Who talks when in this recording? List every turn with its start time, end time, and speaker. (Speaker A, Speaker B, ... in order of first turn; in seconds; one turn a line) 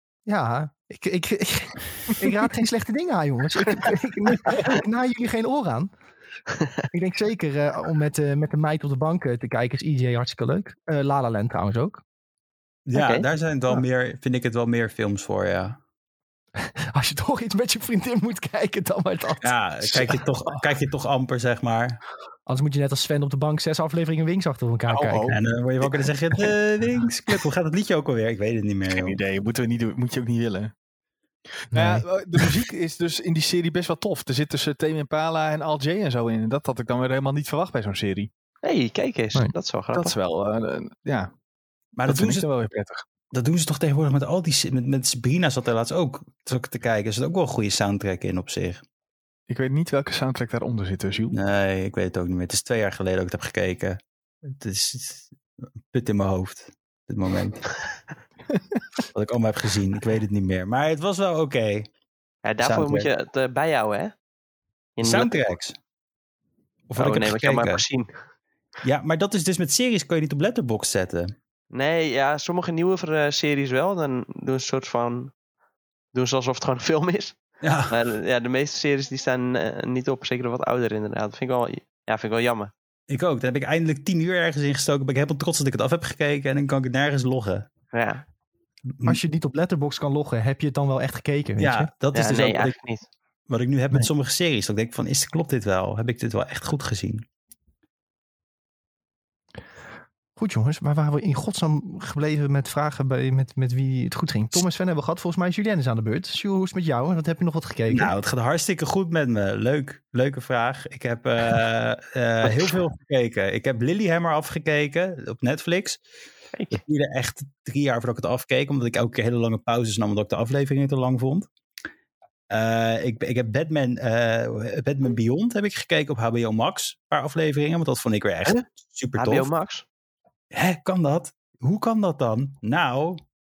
Speaker A: 0.3-5.9
Speaker A: 6.9-12.0
Speaker B: 12.9-15.8
Speaker C: 12.9-13.2
Speaker A: 16.6-20.2
Speaker B: 19.4-22.0
Speaker A: 22.5-25.3
Speaker D: 24.9-25.9
Speaker B: 25.3-29.2
Speaker D: 28.9-30.7
Speaker D: 31.7-38.3
Speaker A: 31.7-32.0
Speaker C: 38.6-40.1
Speaker D: 39.9-41.3
Speaker B: 42.0-42.5
Speaker D: 42.1-43.0
Speaker B: 43.3-48.8
Speaker D: 49.5-51.4
Speaker B: 51.3-55.3
Speaker B: 55.9-57.8
Speaker B: 59.1-61.9
Speaker C: 62.4-64.1
Speaker B: 62.6-63.1
Speaker C: 65.0-65.3
Speaker B: 65.0-65.8
Speaker B: 66.9-67.8
Speaker C: 67.0-68.2
Speaker B: 68.8-71.3
Speaker C: 71.7-75.3
Speaker C: 76.1-82.7
Speaker B: 77.6-77.9
Speaker B: 83.1-87.7
Speaker C: 87.9-88.2
Speaker B: 88.9-89.2
Speaker A: 89.0-91.9
Speaker B: 91.6-92.8
Speaker C: 92.1-93.1
Speaker B: 93.5-97.2
Speaker A: 100.4-108.1
Speaker B: 107.9-116.0
Speaker C: 116.5-116.8
Speaker B: 116.7-121.5
Speaker B: 122.5-129.5
Speaker C: 129.2-129.8
Speaker B: 130.5-133.2